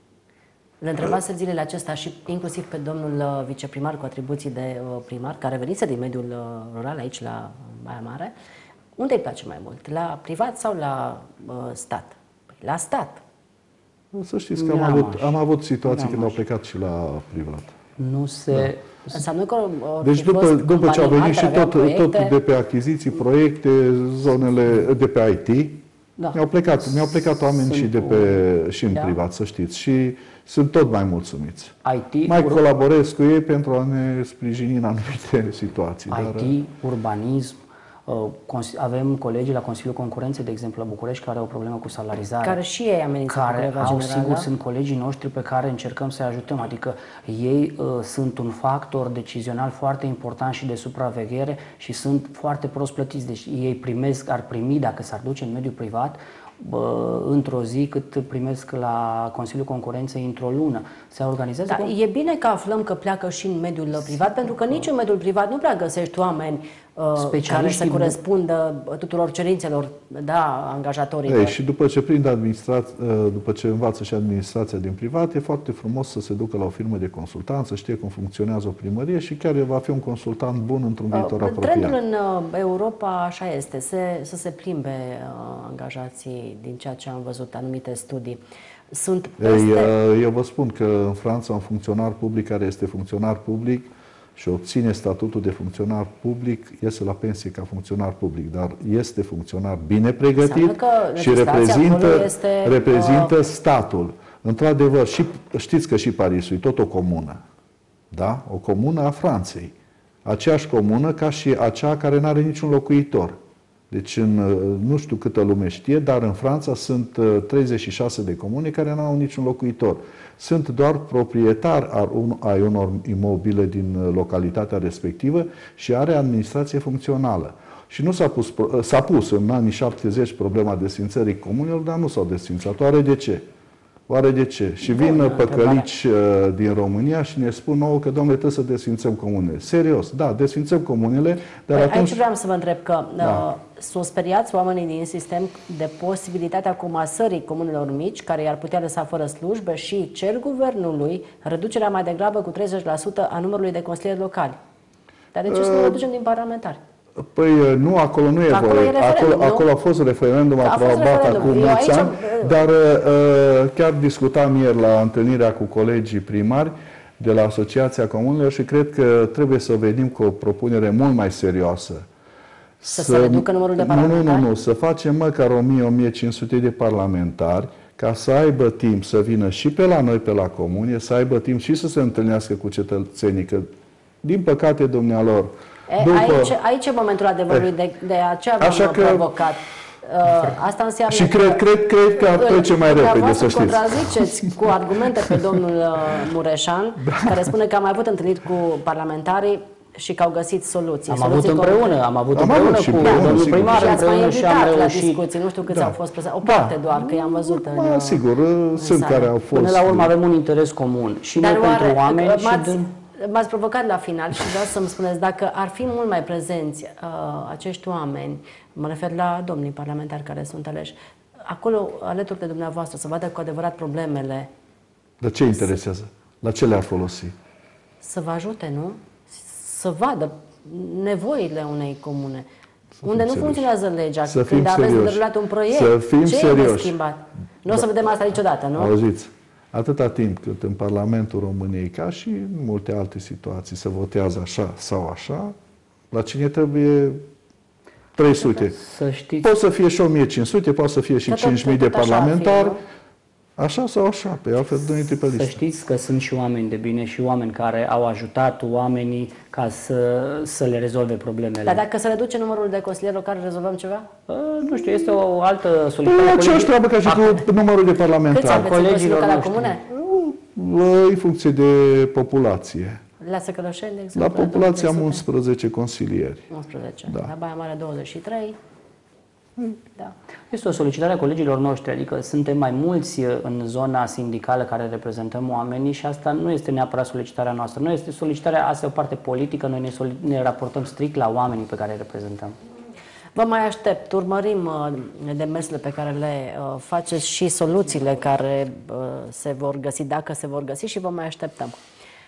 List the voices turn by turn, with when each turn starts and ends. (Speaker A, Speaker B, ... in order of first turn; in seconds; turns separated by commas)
Speaker A: 0.8-8.3, Speaker A: 9.0-13.2, Speaker B: 14.1-17.8, Speaker C: 14.6-16.4, Speaker C: 18.0-19.0, Speaker A: 19.1-22.3, Speaker B: 20.0-31.7, Speaker C: 27.6-28.4, Speaker C: 31.8-32.6, Speaker B: 32.3-36.5, Speaker C: 36.1-42.6, Speaker A: 42.4-44.5, Speaker C: 43.3-61.9, Speaker A: 61.7-71.5, Speaker C: 67.2-68.2, Speaker B: 71.2-82.0, Speaker A: 81.1-88.4, Speaker A: 88.9-89.9, Speaker B: 89.4-107.4, Speaker A: 100.4-103.3, Speaker B: 108.1-109.7, Speaker B: 110.2-113.3, Speaker B: 113.9-133.4, Speaker B: 134.1-142.2, Speaker A: 134.8-135.9, Speaker A: 141.7-154.6, Speaker B: 143.2-143.4, Speaker A: 155.3-156.8, Speaker B: 155.5-156.0, Speaker B: 157.2-172.1, Speaker A: 158.5-159.7, Speaker A: 160.6-162.6, Speaker B: 172.8-183.7, Speaker A: 172.9-174.4, Speaker B: 184.2-186.5, Speaker A: 185.9-191.6, Speaker B: 188.6-189.3, Speaker B: 191.1-194.6, Speaker A: 192.3-201.9, Speaker B: 195.1-195.4, Speaker B: 197.1-197.5, Speaker C: 201.1-205.2, Speaker B: 202.3-204.0, Speaker A: 203.0-208.2, Speaker B: 205.7-210.1, Speaker A: 208.8-209.3, Speaker C: 209.5-212.9, Speaker A: 211.4-224.5, Speaker B: 225.2-227.3, Speaker A: 228.0-232.4, Speaker B: 233.0-233.7, Speaker A: 233.0-238.9, Speaker B: 234.3-237.0, Speaker B: 238.8-245.5, Speaker B: 246.1-247.2, Speaker B: 248.2-248.8, Speaker C: 248.4-249.5, Speaker B: 249.4-252.8, Speaker A: 251.3-252.8, Speaker B: 253.6-255.6, Speaker C: 255.3-261.8, Speaker A: 261.6-264.1, Speaker C: 264.3-267.4, Speaker B: 266.0-268.7, Speaker A: 268.3-269.8, Speaker C: 268.4-269.8, Speaker B: 269.9-273.0, Speaker A: 273.2-275.2, Speaker B: 274.1-276.5, Speaker A: 276.5-278.6, Speaker C: 280.5-292.6, Speaker A: 293.4-301.8